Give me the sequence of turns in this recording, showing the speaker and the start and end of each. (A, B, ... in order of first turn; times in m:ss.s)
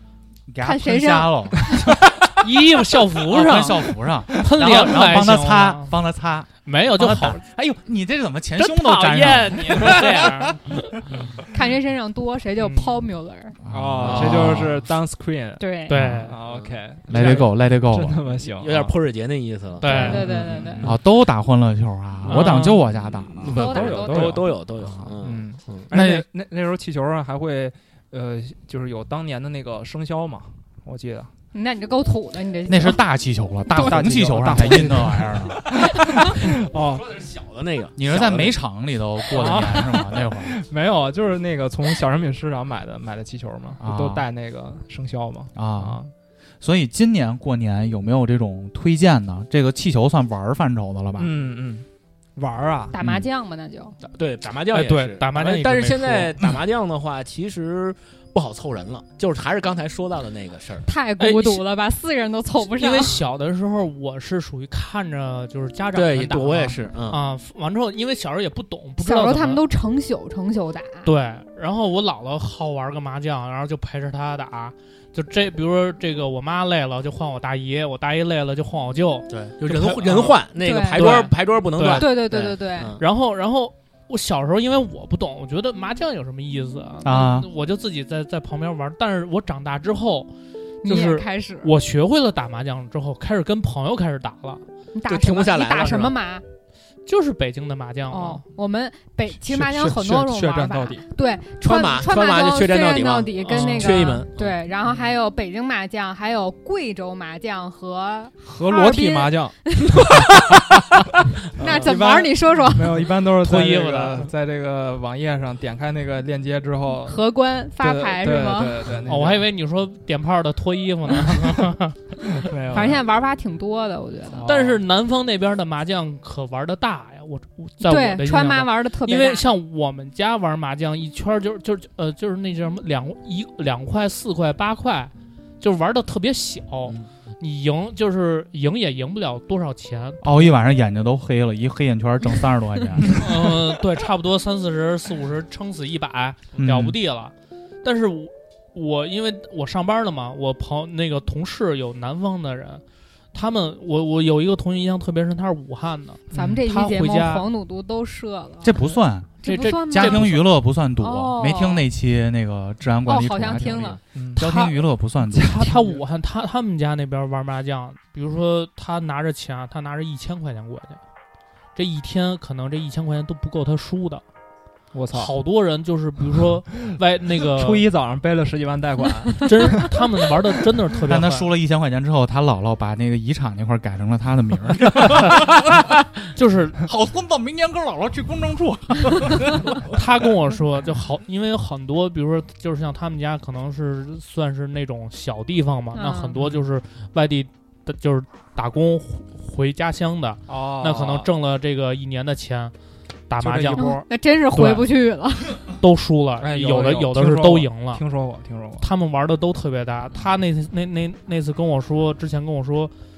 0:00.5-0:01.6 A
0:00.6-0:01.9 B
0:01.9-0:06.0 C
0:03.2-0:10.4 A
0:06.6-0:07.4 C
0:08.6-0:11.1 C
0:09.5-0:10.0 D
0:11.5-0:13.6 B
0:12.6-0:13.1 C
0:13.6-0:14.8 A
0:13.7-0:15.7 D
0:14.0-0:14.6 E
0:15.6-0:16.0 B
0:15.9-0:16.4 C
0:15.9-0:16.3 A
0:16.2-0:19.0 D
0:17.1-0:18.2 A
0:18.6-0:20.2 E
0:19.8-0:20.3 C
0:19.9-0:20.8 B
0:19.9-0:21.0 D
0:20.8-0:23.5 A
0:22.2-0:22.8 C
0:23.1-0:25.9 E
0:23.5-0:24.5 B
0:23.5-0:24.6 D
0:24.8-0:25.1 A
0:25.2-0:31.3 D
0:25.9-0:26.2 A
0:31.5-0:33.0 B
0:32.7-0:35.7 A
0:33.8-0:37.0 D
0:36.0-0:36.3 B
0:36.4-0:38.6 E
0:38.0-0:40.5 A
0:39.3-0:46.1 D
0:43.8-0:44.3 A
0:45.6-0:46.0 A
0:46.6-0:51.3 A
0:51.2-0:51.9 D
0:52.4-0:53.0 D
0:52.9-0:54.0 B
0:54.0-1:00.9 E
0:54.7-0:56.4 C
1:00.9-1:03.2 B
1:01.2-1:01.6 C
1:02.6-1:09.6 C
1:05.9-1:07.2 E
1:09.0-1:11.1 B
1:11.0-1:22.1 C
1:19.3-1:23.0 E
1:20.6-1:23.0 B
1:23.0-1:30.3 C
1:27.0-1:27.5 A
1:30.8-1:31.7 B
1:30.8-1:34.6 C
1:34.9-1:36.4 B
1:35.1-1:36.2 E
1:37.1-1:38.4 C
1:38.1-1:50.9 B
1:39.3-1:41.0 D
1:41.6-1:44.3 E
1:43.4-1:44.0 C
1:44.4-1:45.2 D
1:48.4-1:50.8 D
1:51.5-1:57.2 D
1:51.6-1:53.2 B
1:53.4-1:54.3 C
1:57.0-1:58.9 B
1:57.8-1:59.5 D
1:59.1-2:02.2 C
2:02.4-2:03.0 D
2:02.7-2:04.5 B
2:04.3-2:04.8 D
2:04.4-2:20.5 C
2:07.8-2:09.5 B
2:20.2-2:23.5 A
2:23.1-2:27.3 C
2:26.6-2:27.0 A
2:27.8-2:32.8 C
2:33.3-2:37.5 C
2:36.3-2:36.6 D
2:36.3-2:38.8 B
2:38.6-2:45.7 A
2:39.4-2:40.4 B
2:39.4-2:40.5 C
2:41.0-2:41.9 B
2:43.1-2:44.7 B
2:44.2-2:44.5 D
2:45.4-2:46.0 D
2:45.4-2:51.0 C
2:51.8-2:54.2 C
2:54.9-2:55.3 D
2:55.1-2:57.9 C
2:57.5-3:00.0 D
2:59.4-3:01.5 C
3:01.1-3:05.9 A
3:06.3-3:06.9 C
3:06.8-3:09.8 A
3:09.8-3:22.7 C
3:15.9-3:16.4 B
3:20.5-3:21.3 D
3:23.3-3:24.9 C
3:23.4-3:23.9 D
3:23.8-3:25.6 B
3:25.6-3:28.0 C
3:26.4-3:28.9 D
3:28.8-3:32.9 C